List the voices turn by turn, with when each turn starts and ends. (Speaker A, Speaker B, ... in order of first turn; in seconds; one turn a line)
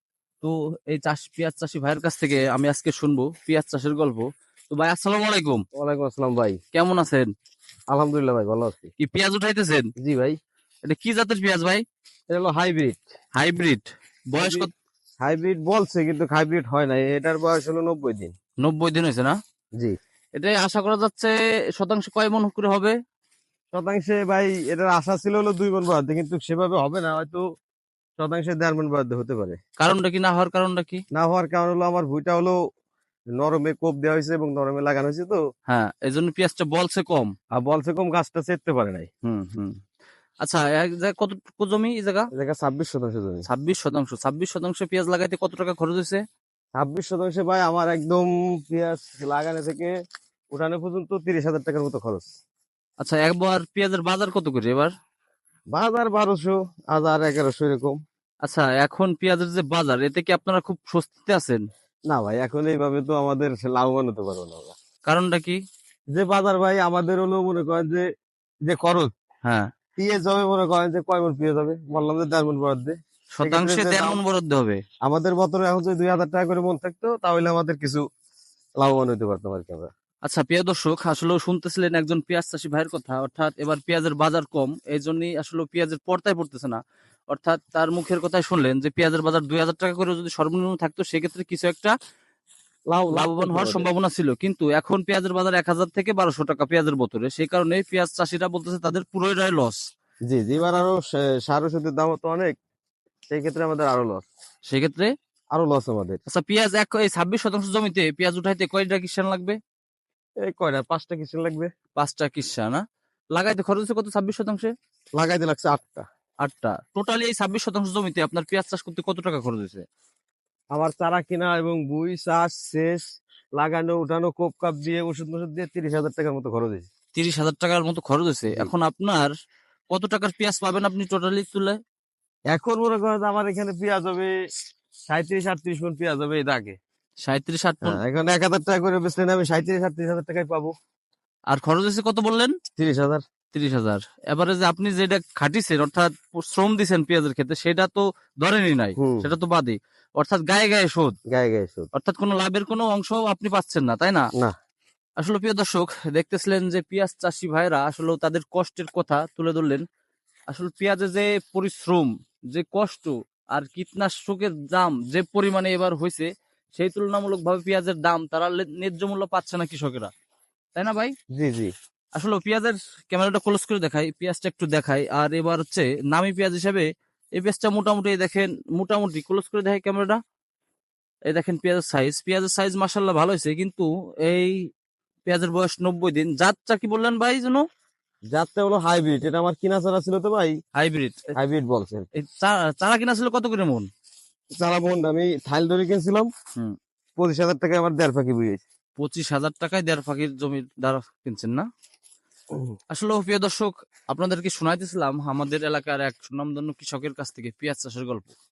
Speaker A: 0.4-5.6
Speaker B: 5.8-6.6
Speaker A: 6.7-7.3
Speaker B: 7.9-8.9
Speaker A: 9.0-9.9
Speaker B: 10.0-10.3
Speaker A: 10.8-11.8
Speaker B: 12.3-13.1
Speaker A: 13.3-14.7
Speaker B: 14.4-14.7
Speaker B: 15.2-18.3
Speaker A: 18.6-19.4
Speaker A: 20.4-22.9
Speaker B: 23.7-27.4
Speaker B: 28.2-29.6
Speaker A: 29.8-31.0
Speaker B: 31.1-32.5
Speaker B: 33.3-35.4
Speaker A: 35.7-37.3
Speaker B: 37.5-39.1
Speaker A: 39.2-39.8
Speaker A: 40.4-42.3
Speaker B: 42.3-43.5
Speaker A: 43.5-46.2
Speaker B: 46.8-49.9
Speaker B: 50.5-52.3
Speaker A: 53.0-54.9
Speaker B: 55.7-58.0
Speaker A: 58.4-61.6
Speaker B: 62.1-64.8
Speaker A: 65.0-65.6
Speaker B: 66.1-68.0
Speaker B: 68.7-69.1
Speaker A: 69.4-69.7
Speaker B: 70.0-74.2
Speaker A: 73.4-74.8
Speaker B: 75.0-78.0
Speaker B: 78.8-79.9
Speaker A: 80.2-91.9
Speaker B: 92.9-93.8
Speaker A: 93.1-99.8
Speaker B: 100.3-102.5
Speaker B: 103.3-104.2
Speaker A: 104.7-105.1
Speaker B: 105.5-106.2
Speaker A: 106.3-109.6
Speaker B: 110.4-111.7
Speaker A: 112.0-112.8
Speaker A: 113.3-114.7
Speaker B: 115.2-116.0
Speaker A: 116.4-119.8
Speaker B: 120.7-123.0
Speaker B: 123.6-126.9
Speaker A: 127.1-129.3
Speaker A: 129.9-131.8
Speaker B: 132.5-134.3
Speaker B: 135.1-136.8
Speaker A: 137.2-138.0
Speaker B: 137.8-140.7
Speaker A: 141.5-142.6
Speaker B: 142.8-143.2
Speaker A: 143.5-151.1
Speaker B: 149.0-149.3
Speaker B: 151.3-151.9
Speaker A: 151.9-154.2
Speaker A: 155.2-159.8
Speaker A: 160.5-170.1
Speaker A: 170.7-171.1
Speaker B: 171.3-171.7
Speaker A: 172.2-180.2
Speaker A: 181.3-184.6
Speaker A: 185.3-187.6
Speaker B: 188.3-190.5
Speaker A: 190.8-191.3
Speaker B: 191.3-192.1
Speaker A: 192.1-193.8
Speaker B: 194.5-196.3
Speaker B: 197.2-198.6
Speaker A: 199.0-201.7
Speaker A: 202.9-208.3